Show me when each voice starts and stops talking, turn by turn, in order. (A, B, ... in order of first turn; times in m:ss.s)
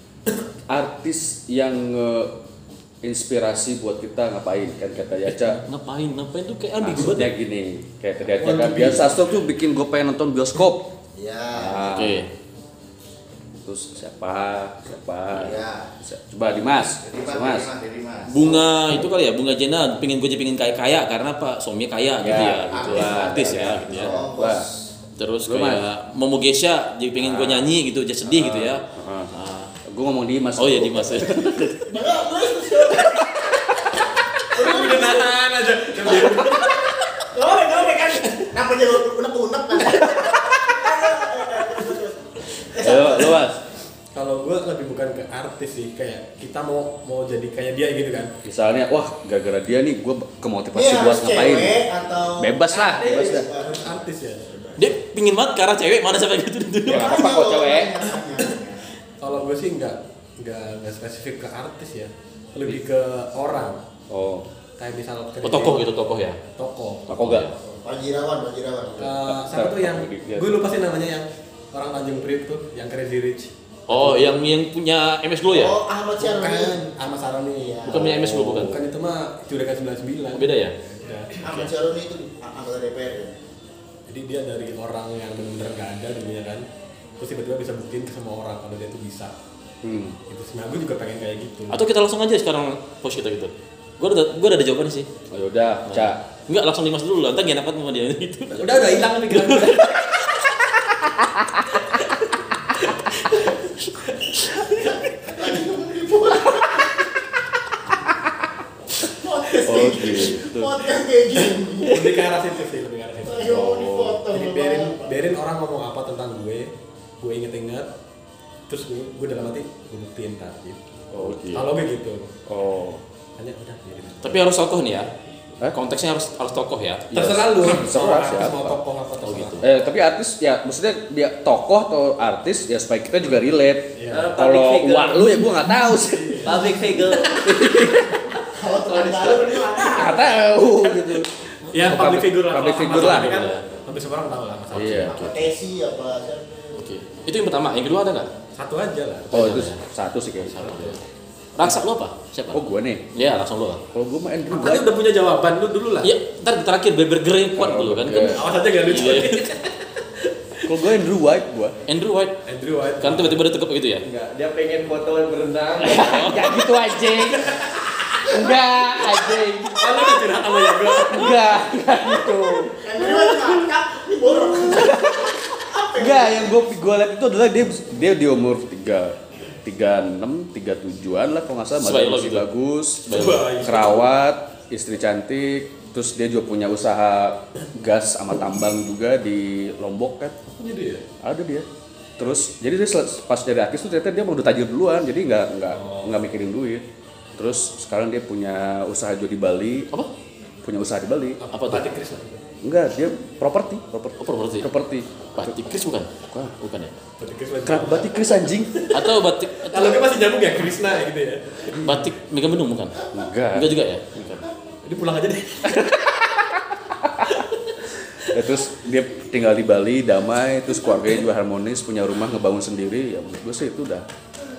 0:00.7-0:02.4 A
0:03.0-0:05.6 A
0:05.3-0:07.3 B
0:06.8-0:10.9 A
0:08.5-0:09.0 C
0:11.2-0:12.1 D
0:11.6-0:12.3 A
0:11.7-0:12.3 B
0:13.6-0:17.7 A
0:15.3-0:15.9 D
0:16.9-0:18.8 D
0:18.3-0:24.2 B
0:22.2-0:24.7 A
0:22.7-0:24.9 D
0:25.2-0:29.7 B
0:25.4-0:25.8 A
0:27.2-0:29.3 A
0:29.8-0:31.8 A
0:30.6-0:31.8 B
0:31.9-0:33.6 D
0:34.5-0:35.4 D
0:34.5-0:36.7 C
0:36.0-0:43.3 D
0:42.8-0:43.6 A
0:44.2-0:48.3 C
0:48.4-0:51.8 A
0:50.7-0:54.9 D
0:52.4-0:53.5 A
0:52.8-0:53.4 E
0:53.0-0:54.4 C
0:54.8-0:57.2 B
0:56.8-0:58.0 A
0:56.9-0:58.8 D
0:59.2-1:03.8 C
1:04.1-1:04.5 A
1:04.8-1:05.9 C
1:05.4-1:06.4 B
1:06.5-1:07.1 C
1:07.1-1:07.5 B
1:07.1-1:07.5 A
1:07.6-1:09.2 D
1:09.0-1:14.3 C
1:09.2-1:10.6 A
1:13.9-1:15.8 B
1:15.5-1:16.8 D
1:16.2-1:17.9 C
1:17.6-1:18.2 D
1:17.8-1:18.8 B
1:17.9-1:18.8 A
1:18.6-1:21.3 C
1:20.3-1:20.8 B
1:21.4-1:23.4 D
1:24.1-1:26.6 C
1:27.2-1:29.3 C
1:29.8-1:30.2 A
1:30.3-1:31.8 C
1:31.7-1:35.1 B
1:35.3-1:36.2 A
1:35.9-1:40.7 B
1:38.5-1:40.0 C
1:44.8-1:47.0 D
1:49.1-1:52.2 D
1:49.6-1:50.8 A
1:51.8-1:53.5 C
1:53.2-1:55.2 D
1:53.4-1:54.2 A
1:54.3-1:57.9 C
1:58.7-2:02.3 C
2:01.1-2:01.6 A
2:01.2-2:01.7 B
2:02.5-2:03.0 A
2:03.4-2:04.4 C
2:04.2-2:05.1 B
2:05.7-2:07.1 B
2:07.1-2:09.7 C
2:07.1-2:08.8 A
2:09.2-2:09.6 B
2:09.6-2:16.6 A
2:14.0-2:14.3 C
2:14.1-2:15.4 E
2:16.0-2:16.6 C
2:16.4-2:17.9 E
2:17.3-2:18.2 A
2:18.5-2:20.2 D
2:18.6-2:20.3 E
2:19.8-2:23.4 A
2:20.8-2:25.1 C
2:22.8-2:23.6 B
2:23.1-2:23.5 E
2:24.7-2:25.5 B
2:24.7-2:25.3 A
2:25.1-2:26.8 D
2:26.8-2:28.3 B
2:28.5-2:29.3 C
2:29.3-2:29.8 B
2:29.3-2:30.8 A
2:30.4-2:31.0 B
2:31.5-2:33.8 B
2:32.5-2:33.0 A
2:33.9-2:34.9 A
2:34.5-2:36.1 C
2:36.0-2:39.4 B
2:37.6-2:38.4 A
2:38.3-2:40.7 C
2:40.7-2:41.8 A
2:41.9-2:42.4 B
2:42.5-2:43.4 C
2:43.0-2:44.0 B
2:44.0-2:46.4 E
2:45.8-2:47.6 A
2:46.0-2:46.6 B
2:47.3-2:47.9 C
2:48.2-2:55.4 A
2:49.8-2:51.4 C
2:51.7-2:52.7 E
2:52.8-2:56.6 D
2:56.0-3:10.4 A
3:01.8-3:02.5 B
3:03.0-3:04.0 B
3:03.1-3:03.8 C
3:10.5-3:11.0 C
3:11.2-3:11.7 A
3:12.2-3:19.9 A
3:15.7-3:16.1 C
3:20.6-3:21.4 A
3:21.4-3:22.4 C
3:21.5-3:21.9 B
3:22.6-3:25.6 A
3:24.2-3:24.7 B
3:25.3-3:27.0 B
3:26.2-3:26.6 A
3:27.2-3:28.1 C
3:27.6-3:28.8 A
3:28.7-3:32.0 C
3:28.9-3:30.1 B
3:31.8-3:34.5 B
3:33.1-3:33.8 A
3:34.8-3:35.8 C
3:35.7-3:37.3 A
3:38.3-3:44.0 A